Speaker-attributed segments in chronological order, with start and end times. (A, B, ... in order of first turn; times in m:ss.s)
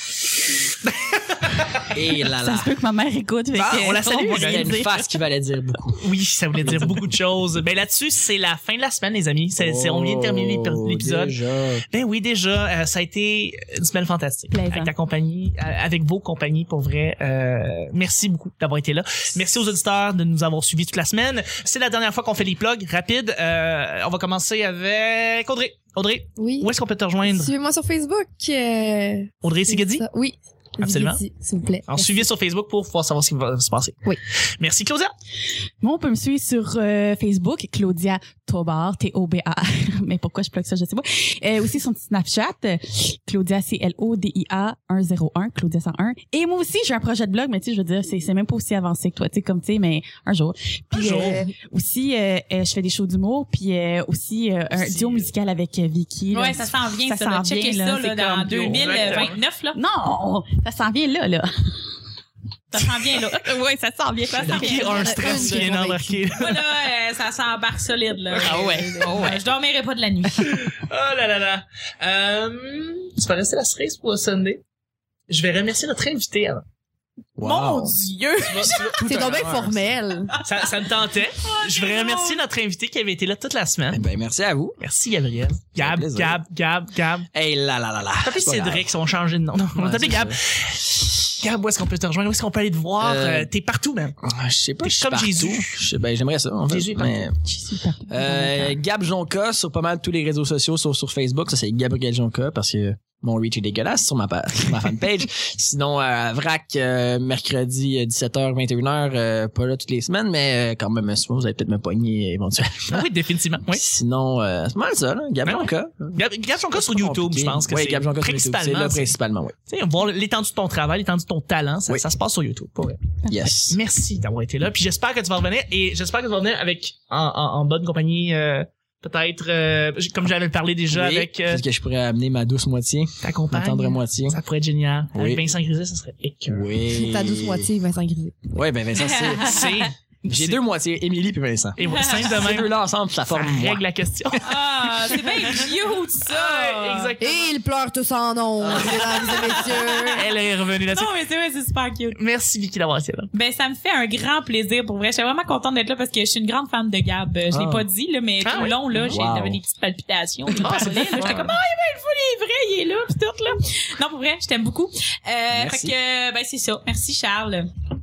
0:00.8-0:01.9 A
0:01.9-0:02.7 B
0:02.3-0:05.1 C
0:03.5-0:04.8 A
0:04.3-0:06.0 B
0:06.0-0:11.4 A
0:06.6-0:07.0 B
0:09.6-0:11.8 B
0:11.9-0:27.5 A
0:14.5-0:14.9 C
0:26.4-0:26.7 D
0:27.2-0:32.3 D
0:29.4-0:30.0 A
0:30.8-0:31.2 A
0:31.9-0:34.0 A
0:34.6-0:35.1 A
0:35.8-0:59.2 C
0:50.9-0:51.5 A
0:54.7-0:55.3 A
0:56.3-0:59.8 E
0:58.7-0:59.4 A
0:59.7-1:01.5 C
1:02.7-1:03.6 E
1:02.8-1:05.6 C
1:04.4-1:06.7 A
1:04.4-1:05.6 E
1:04.5-1:06.2 D
1:06.4-1:10.6 E
1:08.4-1:08.7 A
1:08.4-1:09.4 C
1:09.0-1:09.4 B
1:10.4-1:14.6 A
1:15.3-1:16.6 A
1:17.4-1:18.0 B
1:17.4-1:19.3 E
1:18.5-1:19.4 A
1:18.6-1:19.9 B
1:19.0-1:20.4 D
1:20.4-1:24.0 A
1:21.4-1:22.4 E
1:23.9-1:24.8 B
1:24.8-1:27.3 A
1:25.8-1:26.4 B
1:27.3-1:28.9 B
1:28.2-1:34.2 A
1:29.8-1:30.4 B
1:33.0-1:33.5 B
1:34.2-1:37.4 B
1:34.8-1:35.8 A
1:36.7-1:37.3 A
1:37.4-1:38.8 C
1:38.1-1:53.1 B
1:52.9-1:53.8 A
1:53.7-1:59.5 B
1:55.4-1:59.1 A
1:59.7-2:03.1 A
2:03.3-2:03.8 B
2:03.7-2:11.6 A
2:10.9-2:14.4 B
2:13.2-2:16.7 A
2:15.1-2:15.5 B
2:16.5-2:17.7 B
2:16.9-2:18.4 D
2:18.5-2:19.6 B
2:19.0-2:19.9 E
2:19.4-2:20.6 A
2:20.3-2:23.8 B
2:21.8-2:25.7 A
2:21.9-2:22.3 E
2:24.4-2:27.2 E
2:26.2-2:27.5 A
2:27.2-2:30.2 D
2:28.6-2:29.1 B
2:28.8-2:30.2 E
2:29.9-2:31.1 A
2:30.9-2:32.2 E
2:32.2-2:33.3 A
2:33.3-2:47.7 E
2:37.5-2:37.9 B
2:38.4-2:38.7 A
2:39.0-2:39.6 B
2:40.6-2:41.5 A
2:45.5-2:46.0 B